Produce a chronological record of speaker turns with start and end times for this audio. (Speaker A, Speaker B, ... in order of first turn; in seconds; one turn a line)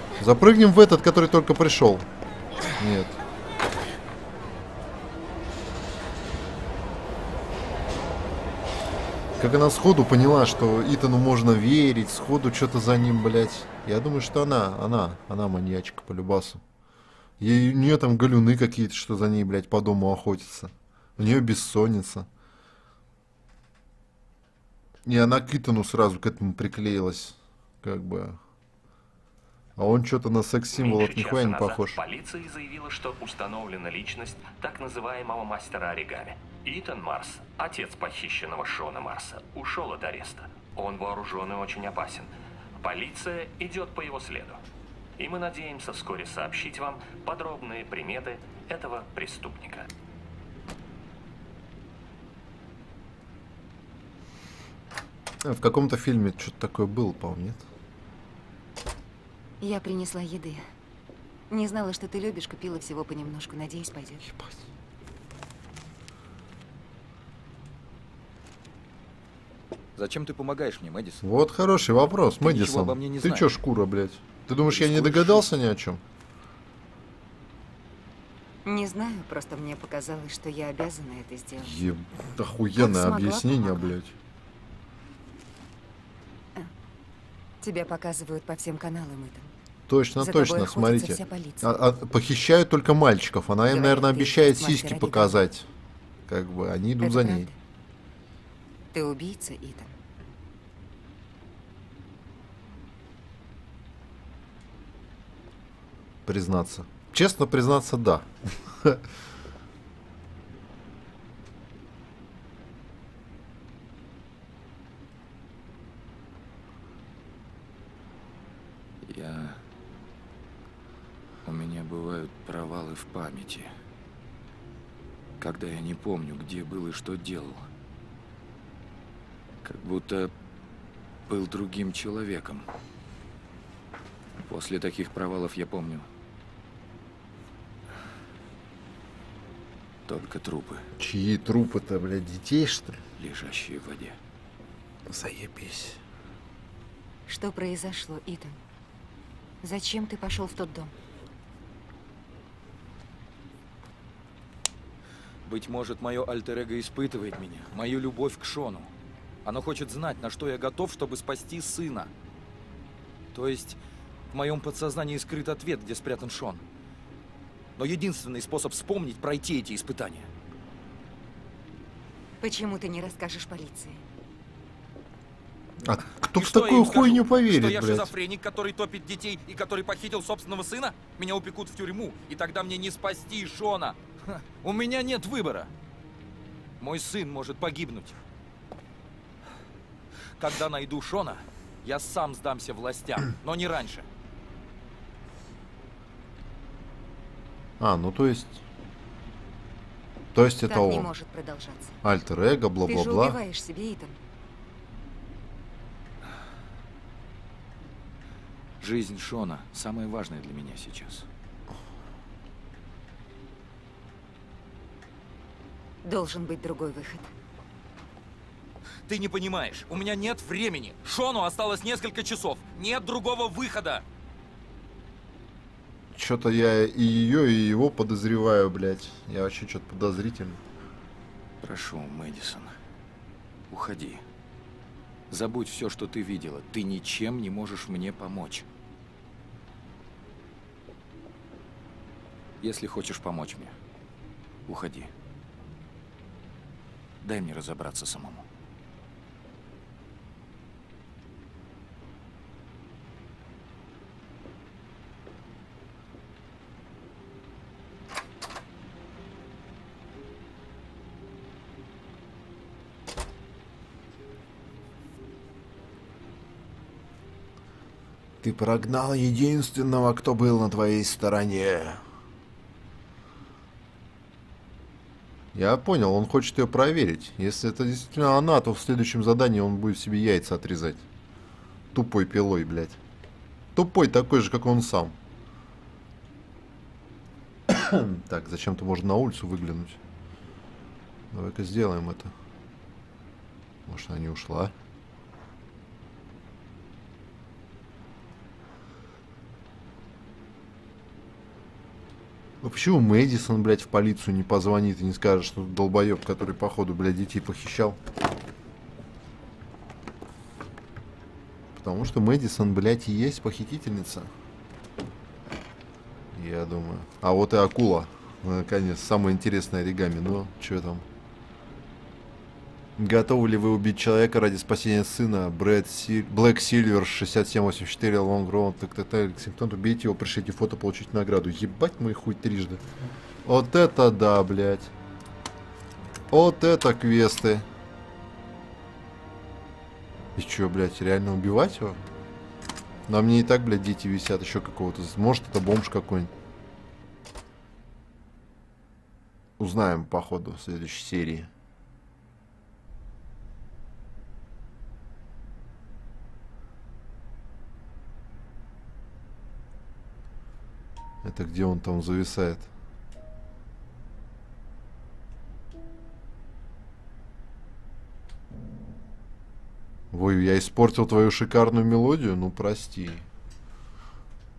Speaker A: 0.2-2.1
Speaker A: 2.8-3.2
Speaker A: 9.4-16.6
Speaker A: 17.4-22.3
Speaker A: 25.1-28.4
Speaker A: 29.8-32.0
Speaker B: 30.7-44.6
Speaker B: 45.2-49.9
Speaker A: 55.4-57.6
Speaker C: 59.6-60.6
Speaker C: 61.5-64.3
Speaker A: 64.2-64.6
Speaker D: 70.0-71.2
Speaker A: 71.2-76.0
Speaker D: 72.4-73.5
Speaker D: 74.7-75.5
Speaker C: 78.6-81.7
Speaker A: 81.6-84.1
Speaker C: 82.8-84.0
Speaker C: 87.6-89.5
Speaker A: 89.9-95.7
Speaker C: 90.2-91.8
Speaker C: 93.7-95.4
Speaker A: 96.3-97.5
Speaker C: 97.0-97.5
Speaker C: 98.9-100.0
Speaker A: 106.3-109.0
Speaker D: 119.0-119.6
Speaker D: 121.5-123.7
Speaker D: 125.4-127.6
Speaker D: 129.6-130.3
Speaker D: 131.3-132.7
Speaker D: 134.5-136.1
Speaker D: 140.1-140.8
Speaker A: 141.0-143.0
Speaker D: 143.2-144.2
Speaker A: 145.1-146.0
Speaker C: 147.3-148.6
Speaker C: 149.6-150.9
Speaker D: 155.4-158.9
Speaker D: 159.4-162.1
Speaker D: 163.3-163.8
Speaker D: 164.3-166.6
Speaker D: 167.8-170.3
Speaker C: 172.4-174.0
Speaker A: 175.8-178.1
Speaker D: 176.3-185.7
Speaker D: 186.8-188.2
Speaker D: 190.4-194.1
Speaker A: 197.8-198.6
Speaker A: 200.3-201.1
Speaker C: 200.7-202.0
Speaker A: 202.0-203.4
Speaker C: 202.8-204.2
Speaker D: 208.8-211.3
Speaker C: 216.0-217.3
Speaker D: 219.1-224.0
Speaker A: 226.1-230.6
Speaker D: 231.6-232.7
Speaker D: 233.7-234.2
Speaker D: 235.3-238.7
Speaker D: 242.6-243.8
Speaker D: 244.7-245.1
Speaker D: 247.2-248.4
Speaker A: 268.4-272.0
Speaker A: 275.5-281.0
Speaker A: 281.9-283.0
Speaker A: 283.7-285.2
Speaker A: 287.7-290.0
Speaker A: 291.3-292.3
Speaker A: 293.9-294.7
Speaker A: 302.6-308.0
Speaker A: 311.7-314.3
Speaker A: 316.3-321.1
Speaker A: 323.0-332.8
Speaker A: 333.4-334.9
Speaker A: 336.3-337.7
Speaker A: 340.4-342.0
Speaker A: 343.1-346.3
Speaker A: 349.6-351.5
Speaker A: 361.2-362.7
Speaker A: 370.1-373.3